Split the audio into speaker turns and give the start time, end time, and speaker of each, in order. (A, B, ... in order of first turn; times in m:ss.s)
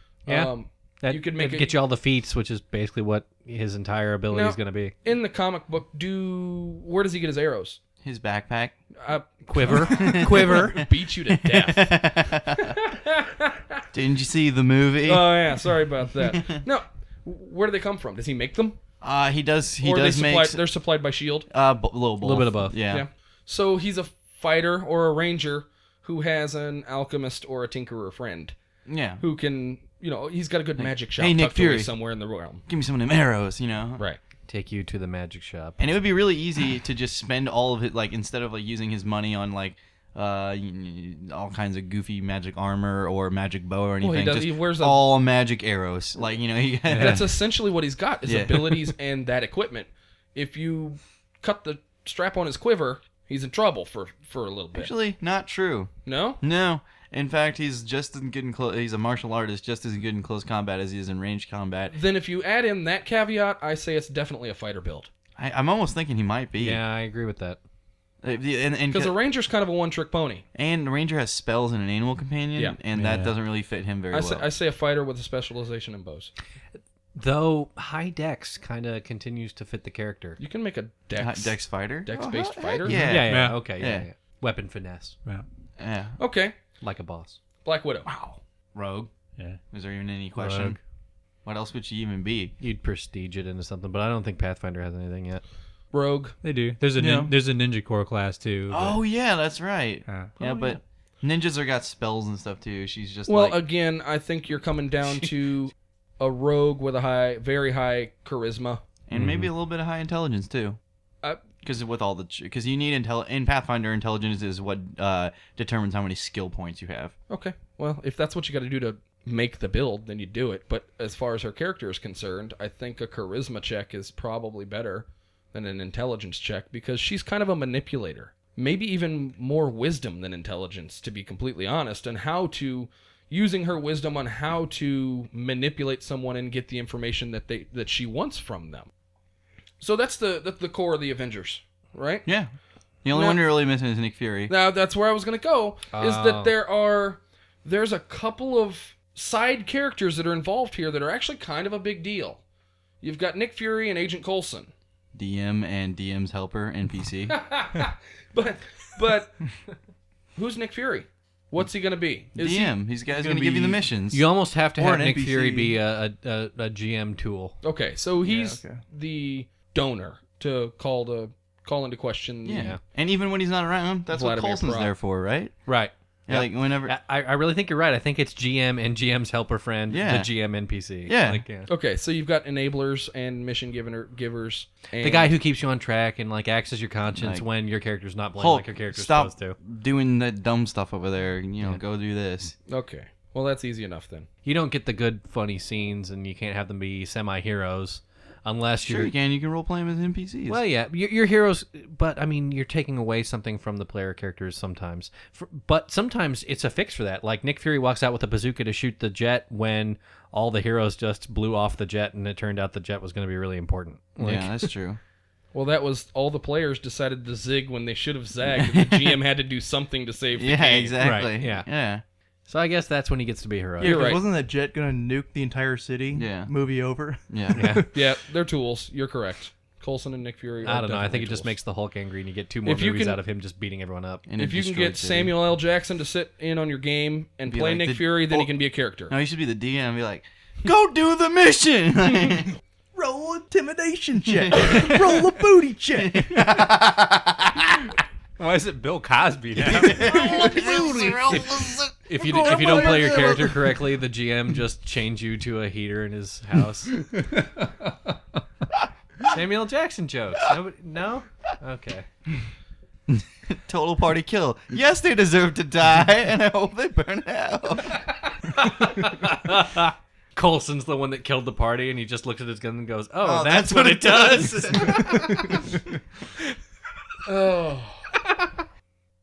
0:00.3-0:01.7 A
0:00.3-0:04.9 B
0:04.3-0:07.8 A
0:08.0-0:08.7 C
0:09.0-0:13.8 A
0:09.4-0:10.8 B
0:09.8-0:12.8 C
0:13.9-0:15.3 C
0:15.0-0:18.8 A
0:16.2-0:16.6 C
0:19.0-0:20.6 C
0:19.8-0:21.5 A
0:21.5-0:23.0 C
0:22.2-0:22.8 B
0:22.9-0:28.6 A
0:28.9-0:29.2 C
0:29.2-0:32.6 A
0:31.2-0:31.9 C
0:32.7-0:34.0 C
0:34.5-0:35.8 B
0:35.8-0:47.3 C
0:44.0-0:45.0 A
0:46.9-0:47.2 D
0:47.0-0:54.9 A
0:48.2-0:48.9 C
0:54.7-1:02.0 C
0:56.0-0:56.4 A
1:01.9-1:05.1 A
1:05.4-1:06.8 C
1:06.6-1:07.6 B
1:08.2-1:09.1 C
1:08.9-1:10.4 A
1:10.6-1:14.5 C
1:13.0-1:13.3 D
1:13.0-1:13.3 B
1:14.1-1:16.3 A
1:17.2-1:20.4 B
1:20.4-1:23.0 A
1:21.2-1:24.0 C
1:22.9-1:23.7 D
1:23.0-1:25.2 B
1:25.8-1:26.2 C
1:26.2-1:26.6 A
1:26.8-1:27.4 B
1:27.6-1:28.1 A
1:28.1-1:29.1 C
1:29.7-1:30.8 C
1:30.3-1:30.8 B
1:31.4-1:32.6 C
1:32.6-1:35.4 B
1:35.9-1:36.4 A
1:36.4-1:39.0 D
1:37.0-1:37.3 E
1:38.7-1:43.6 C
1:40.1-1:40.4 D
1:40.4-1:40.8 B
1:43.3-1:48.8 A
1:49.1-1:50.8 C
1:49.1-1:49.5 D
1:51.6-1:57.1 C
1:57.3-2:18.9 A
2:19.8-2:22.3 A
2:22.3-2:22.5 C
2:23.0-2:24.5 C
2:23.1-2:23.4 A
2:24.5-2:32.4 A
2:25.9-2:26.6 B
2:33.0-2:34.7 A
2:35.1-2:37.4 C
2:37.3-2:39.6 A
2:40.4-2:42.8 A
2:42.4-2:44.2 C
2:43.2-2:43.7 E
2:43.2-2:47.6 B
2:44.8-2:45.8 E
2:47.6-2:52.7 A
2:48.2-2:48.8 E
2:52.4-2:55.6 C
2:52.6-2:52.8 B
2:54.1-2:54.9 A
2:55.6-3:01.7 B
2:56.3-2:57.0 C
2:59.9-3:00.3 C
3:01.1-3:01.4 C
3:01.7-3:05.3 A
3:05.0-3:09.6 B
3:07.2-3:07.4 C
3:08.4-3:12.6 C
3:12.7-3:14.3 A
3:14.4-3:19.1 B
3:18.8-3:20.6 C
3:20.5-3:34.6 B
3:34.2-3:35.0 C
3:35.5-3:41.0 A
3:38.6-3:39.1 C
3:40.3-3:42.0 C
3:41.0-3:41.7 B
3:42.5-3:44.0 B
3:43.8-3:47.9 E
3:43.8-3:44.2 A
3:46.1-3:46.5 C
3:47.3-3:47.6 C
3:47.5-3:47.9 B
3:47.9-3:51.6 A
3:50.6-3:54.2 B
3:52.6-3:53.2 A
3:54.3-3:55.3 C
3:54.4-3:59.1 A
3:57.5-3:58.5 C
3:59.1-4:02.5 C
4:03.0-4:06.4 E
4:04.3-4:05.1 C
4:06.0-4:07.7 C
4:08.4-4:11.8 D
4:09.6-4:11.9 C
4:12.0-4:17.0 B
4:12.2-4:13.5 E
4:12.6-4:13.1 C
4:17.1-4:17.7 D
4:19.3-4:22.0 B
4:23.1-4:28.1 C
4:28.5-4:35.6 B
4:33.2-4:35.8 C
4:37.2-4:38.1 A